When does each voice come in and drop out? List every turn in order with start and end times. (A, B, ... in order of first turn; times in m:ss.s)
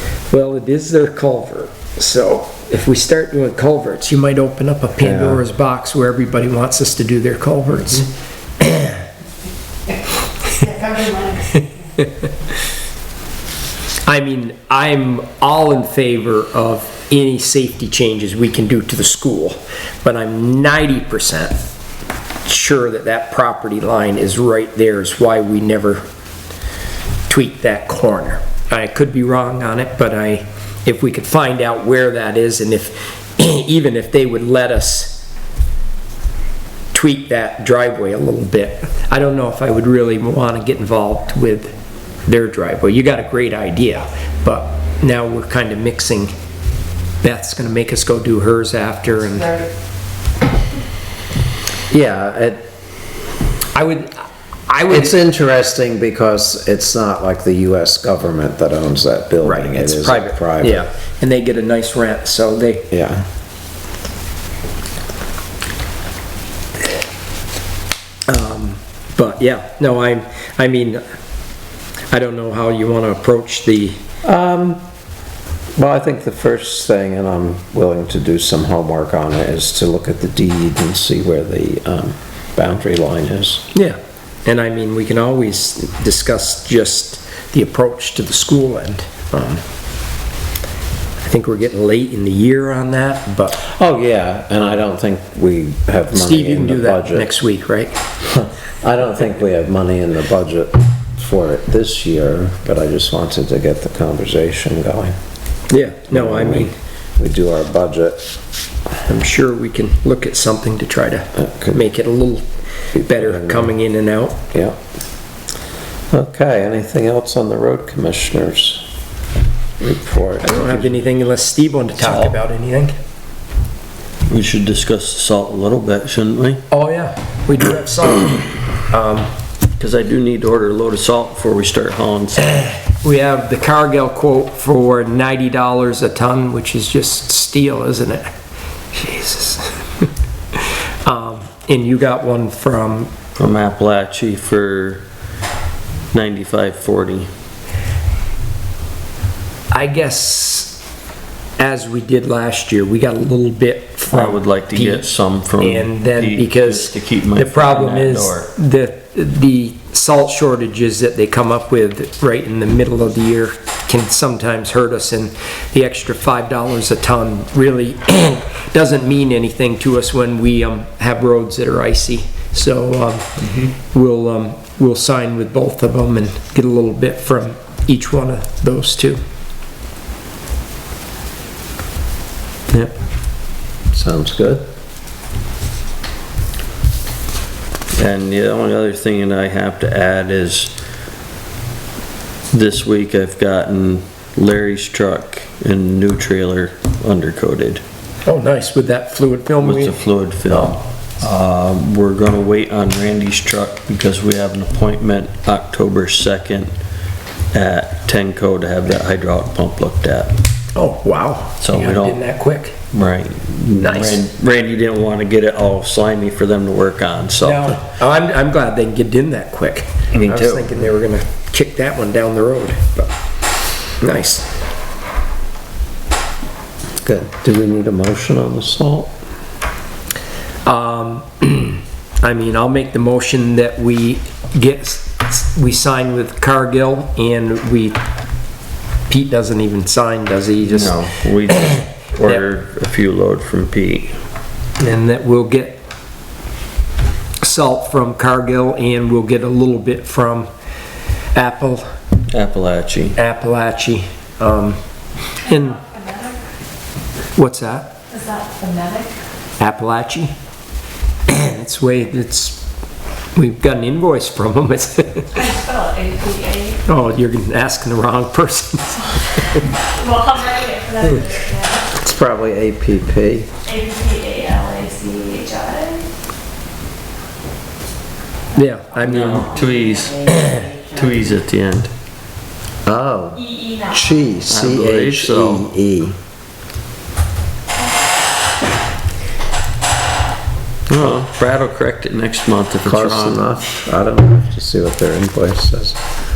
0:00.3-0:08.1 A
0:05.0-0:05.4 B
0:08.6-0:09.0 A
0:11.2-0:11.6 A
0:14.1-0:21.6 A
0:22.5-0:26.0 A
0:27.3-0:35.2 A
0:36.9-0:41.7 A
0:42.3-0:46.3 A
0:47.2-0:49.7 A
0:51.9-0:52.7 B
0:53.8-0:54.2 A
0:54.7-0:55.2 A
0:54.9-1:00.9 B
0:59.4-1:02.9 A
1:02.9-1:03.3 B
1:08.3-1:11.0 A
1:12.1-1:14.0 A
1:14.2-1:14.8 B
1:15.8-1:23.7 B
1:23.7-1:29.6 A
1:31.2-1:33.3 A
1:33.3-1:37.3 B
1:36.1-1:37.9 A
1:38.2-1:45.2 B
1:45.7-1:46.7 A
1:46.1-1:48.3 B
1:49.1-1:52.5 A
1:51.4-1:51.8 B
1:53.0-1:53.7 B
1:53.0-1:54.4 A
1:56.1-1:58.9 B
1:59.8-2:01.1 B
2:00.4-2:03.0 A
2:02.0-2:02.4 C
2:04.3-2:06.6 C
2:06.7-2:09.3 A
2:09.8-2:12.6 C
2:12.9-2:18.3 A
2:18.9-2:20.0 A
2:21.0-2:23.1 A
2:23.4-2:25.0 C
2:26.1-2:27.3 C
2:29.7-2:30.8 A
2:31.6-2:53.3 A
2:34.1-2:38.5 C
2:53.8-2:59.2 A
3:03.9-3:04.6 B
3:07.9-3:10.8 C
3:12.5-3:17.8 C
3:18.3-3:20.8 A
3:19.6-3:26.7 C
3:27.5-3:30.3 C
3:30.8-3:32.8 A
3:31.6-3:32.2 C
3:32.9-3:37.8 C
3:33.8-3:34.2 A
3:37.4-3:43.1 A
3:40.1-3:40.8 C
3:44.0-3:44.5 A
3:47.0-3:49.1 B
3:50.7-3:58.0 A
3:59.1-4:01.1 A
4:00.6-4:04.2 C
4:04.8-4:05.8 A
4:07.4-4:10.5 A
4:11.4-4:11.8 A
4:12.3-4:13.2 C
4:13.2-4:14.8 A
4:15.4-4:15.8 A
4:15.8-4:16.4 D
4:17.4-4:18.0 A
4:18.1-4:19.1 D
4:19.6-4:20.3 A
4:21.3-4:22.6 A
4:23.4-4:25.3 A
4:25.3-4:26.8 D
4:26.9-4:29.1 A
4:29.9-4:31.8 D
4:32.0-4:33.5 B
4:33.7-4:36.1 D
4:38.6-4:39.6 A
4:39.0-4:40.3 C
4:40.8-4:41.9 C
4:42.8-4:46.2 B
4:43.4-4:44.3 D
4:44.5-4:45.7 C
4:50.9-4:53.5 C
4:52.8-4:56.0 B